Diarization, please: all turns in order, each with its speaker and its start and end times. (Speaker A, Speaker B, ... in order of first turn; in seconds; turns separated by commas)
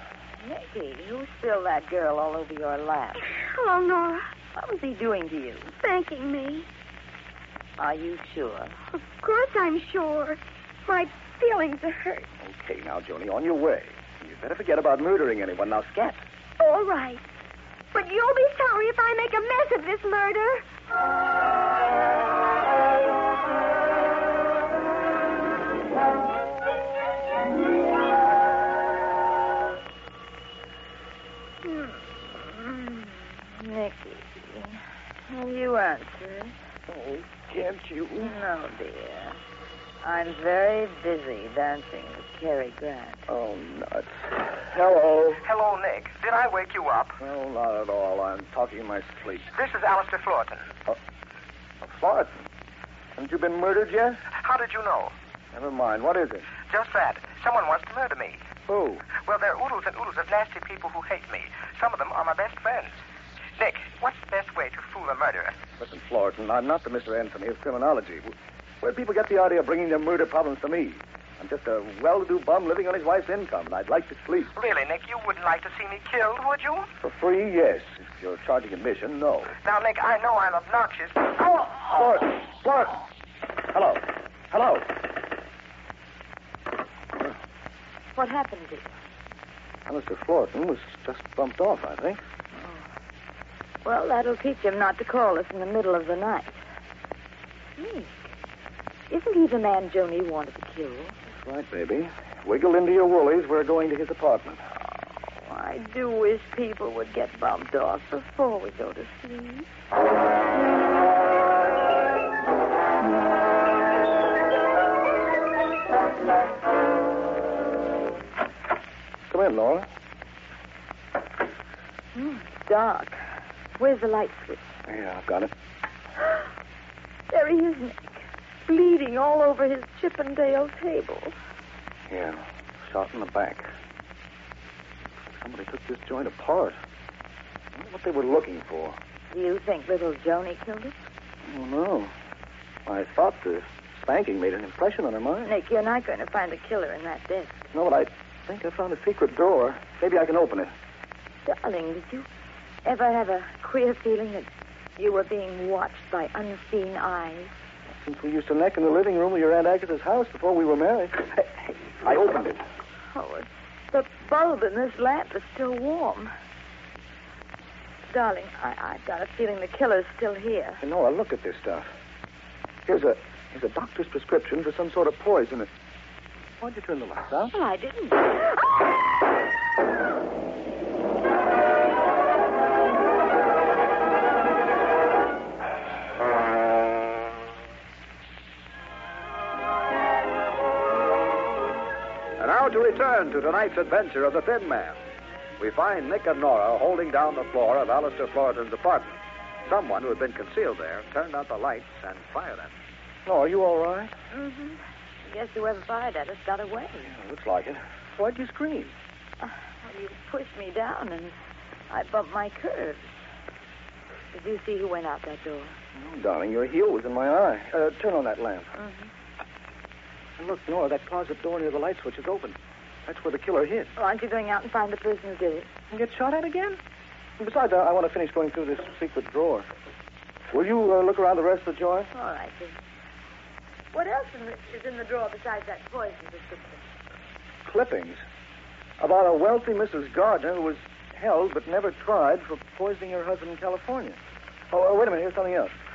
Speaker A: 0.4-3.2, Speaker B: 3.2-4.3, Speaker A: 4.5-5.7, Speaker B: 5.8-6.7, Speaker A: 7.8-8.8, Speaker B: 8.9-12.3, Speaker C: 12.4-16.2, Speaker B: 16.6-17.2, Speaker B: 17.9-20.6, Speaker A: 31.6-36.5, Speaker C: 36.9-38.4, Speaker A: 38.2-39.4, Speaker A: 40.0-43.3, Speaker C: 43.3-45.4, Speaker D: 45.4-47.2, Speaker C: 47.2-49.5, Speaker D: 49.5-50.7, Speaker C: 51.8-52.5, Speaker C: 53.2-54.3, Speaker D: 54.3-55.1, Speaker C: 55.5-56.5, Speaker D: 56.6-58.4, Speaker C: 58.7-59.1, Speaker D: 59.1-63.0, Speaker D: 63.6-65.6, Speaker C: 65.8-74.5, Speaker D: 74.5-76.9, Speaker C: 77.0-79.5, Speaker D: 79.6-82.1, Speaker C: 81.9-83.0, Speaker C: 83.7-84.9, Speaker A: 88.2-88.9, Speaker C: 89.9-92.2, Speaker A: 92.6-92.9, Speaker A: 93.8-96.6, Speaker A: 97.8-98.3, Speaker A: 99.1-101.2, Speaker C: 101.3-104.6, Speaker A: 105.3-109.7, Speaker C: 119.3-119.9, Speaker A: 122.2-123.2, Speaker A: 123.8-124.6, Speaker C: 124.9-125.5, Speaker A: 127.3-131.3, Speaker C: 132.1-133.7, Speaker C: 135.3-136.8, Speaker C: 137.8-139.0, Speaker A: 139.3-140.9, Speaker C: 141.4-142.1, Speaker C: 142.9-145.5, Speaker A: 145.5-147.7, Speaker C: 147.7-150.7, Speaker A: 151.5-152.3, Speaker A: 152.8-157.5, Speaker C: 157.9-162.6, Speaker A: 163.1-166.3, Speaker A: 168.1-170.8, Speaker C: 170.8-171.9, Speaker C: 172.9-175.7, Speaker C: 176.6-177.6, Speaker A: 177.5-178.5, Speaker E: 192.4-195.0, Speaker E: 195.6-202.7, Speaker C: 203.3-204.1, Speaker A: 204.3-207.1, Speaker C: 207.1-208.9, Speaker A: 209.4-211.3, Speaker A: 211.9-213.1, Speaker A: 214.3-215.8, Speaker C: 215.9-218.7, Speaker A: 218.8-219.1, Speaker C: 220.4-223.9, Speaker A: 224.0-225.7, Speaker C: 225.9-226.8, Speaker C: 227.4-229.7, Speaker C: 230.5-232.1, Speaker A: 232.1-232.8, Speaker A: 233.9-236.8, Speaker C: 237.7-238.2, Speaker C: 239.0-244.2, Speaker C: 244.7-245.7